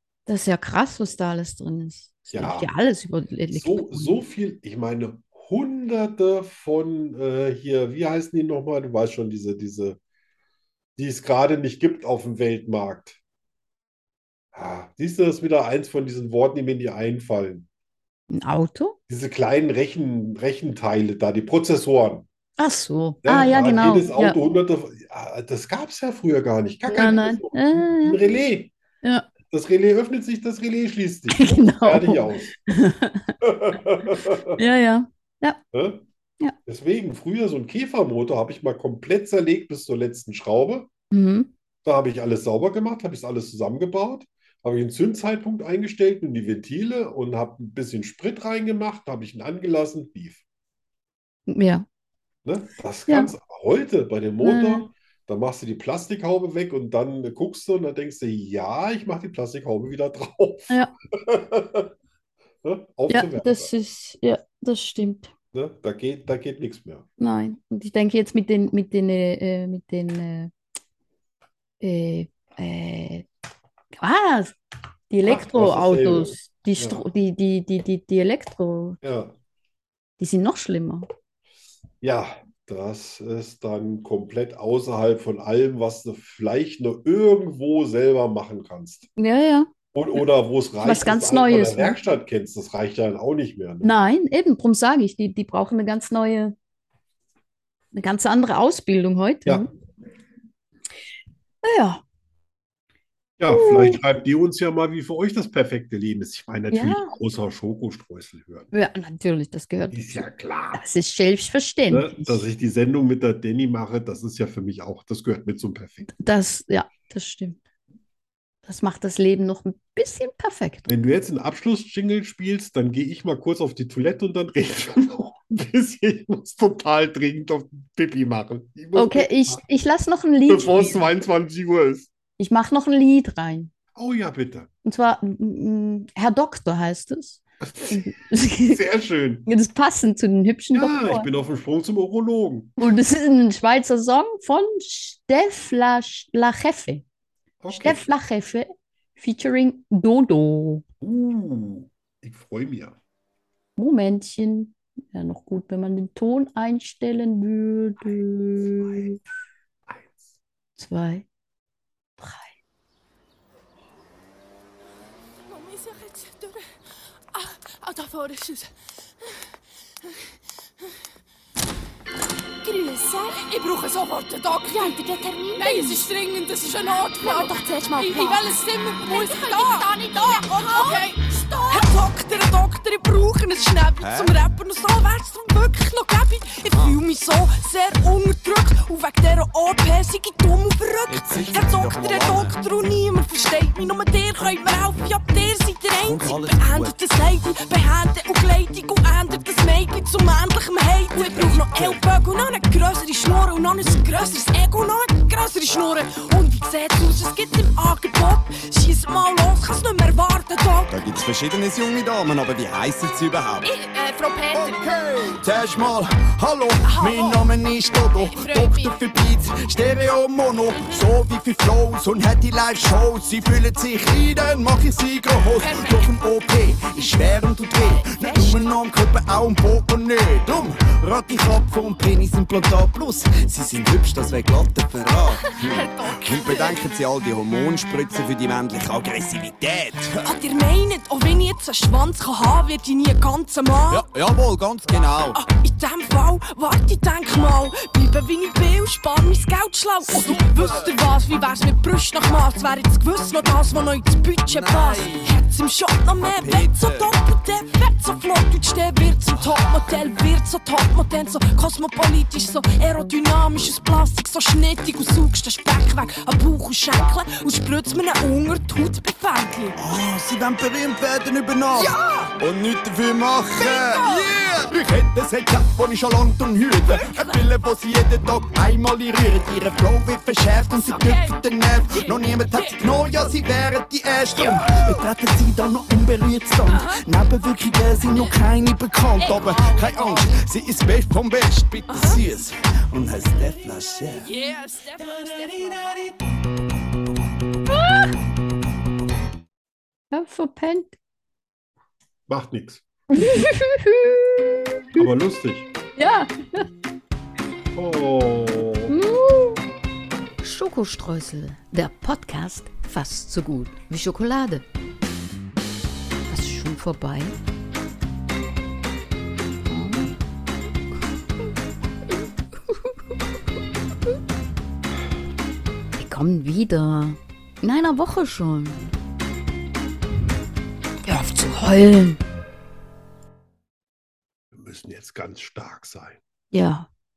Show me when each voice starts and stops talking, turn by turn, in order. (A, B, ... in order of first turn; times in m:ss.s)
0:00.3-0:04.2 A
0:02.3-0:02.7 B
0:03.5-0:10.0 B
0:11.0-0:13.2 B
0:14.5-0:17.7 B
0:18.3-0:19.0 A
0:19.1-0:22.3 B
0:22.6-0:24.4 A
0:23.2-0:28.7 B
0:26.9-0:28.2 A
0:29.0-0:29.3 A
0:29.5-0:32.6 B
0:31.3-0:33.3 A
0:33.4-0:34.6 B
0:34.6-0:35.6 A
0:35.7-0:36.0 B
0:36.7-0:40.9 B
0:41.1-0:41.5 A
0:41.8-0:50.4 B
0:51.5-0:51.8 A
0:52.4-1:01.9 B
0:53.1-0:53.3 A
0:54.4-0:54.9 A
1:02.6-1:03.7 B
1:03.1-1:05.3 A
1:05.5-1:07.1 B
1:07.2-1:10.5 A
1:11.8-1:13.3 A
1:14.0-1:14.6 A
1:15.1-1:19.0 A
1:15.2-1:17.1 B
1:19.0-1:19.4 B
1:20.2-1:21.1 A
1:22.0-1:29.1 B
1:29.2-1:29.7 A
1:29.9-1:33.9 B
1:30.8-1:32.0 A
1:33.8-1:36.5 A
1:37.9-1:39.7 A
1:41.6-1:42.0 A
1:43.4-1:48.7 B
1:43.5-1:44.0 A
1:46.7-1:47.1 A
1:48.7-1:50.0 A
1:49.9-1:50.8 B
1:50.7-1:52.4 A
1:51.9-1:56.1 B
1:56.1-1:57.6 A
1:58.6-2:00.9 A
2:00.9-2:09.6 B
2:09.0-2:11.0 A
2:10.5-2:12.1 B
2:12.4-2:13.7 A
2:14.0-2:14.7 B
2:14.8-2:18.8 A
2:17.6-2:19.5 B
2:19.5-2:21.3 A
2:20.7-2:22.8 B
2:22.8-2:27.0 A
2:27.6-2:28.1 B
2:27.7-2:30.8 A
2:31.0-2:33.0 B
2:33.8-2:39.2 A
2:38.0-2:39.1 B
2:39.9-2:40.3 B
2:40.8-2:41.3 A
2:42.2-2:42.5 A
2:45.5-2:46.6 C
2:47.3-2:48.7 C
2:52.7-2:53.1 D
2:53.3-2:55.0 C
2:54.7-2:56.0 A
2:55.6-3:30.9 C
2:55.6-2:55.9 D
2:57.3-2:58.6 D
2:59.9-3:00.3 D
3:04.0-3:04.5 E
3:06.7-3:07.0 E
3:11.1-3:12.6 E
3:16.0-3:17.0 E
3:21.2-3:22.0 E
3:23.8-3:24.1 E
3:30.9-3:33.7 E
3:33.6-3:34.8 C
3:34.5-4:00.2 E
3:36.8-3:37.4 C
3:38.2-3:39.0 C
3:45.6-3:46.1 C
3:48.0-3:48.7 C
3:55.3-3:56.9 C
4:00.2-4:04.1 C
4:03.9-4:05.4 E
4:05.3-4:29.8 C
4:10.0-4:11.0 E
4:14.5-4:15.3 E
4:16.3-4:17.1 E
4:19.3-4:19.6 E
4:29.8-4:54.3 E
4:31.8-4:32.3 C
4:33.6-4:34.3 C
4:37.0-4:37.3 C
4:40.9-4:41.3 C
4:41.9-4:42.7 C
4:44.4-4:44.8 C
4:46.7-4:47.0 C
4:49.2-4:50.4 C
4:51.9-4:52.2 C
4:54.2-4:55.8 C
4:57.7-4:58.1 A
5:00.1-5:01.0 A
5:02.3-5:02.8 B
5:03.1-5:05.1 A
5:05.0-5:05.7 B
5:06.0-5:06.7 A
5:07.7-5:08.9 B
5:08.9-5:09.6 A
5:10.4-5:14.6 A
5:16.3-5:17.4 A
5:19.7-5:20.1 A
5:22.7-5:23.0 A
5:26.0-5:28.8 A
5:31.0-5:32.2 A
5:34.5-5:36.2 B
5:36.5-5:36.9 A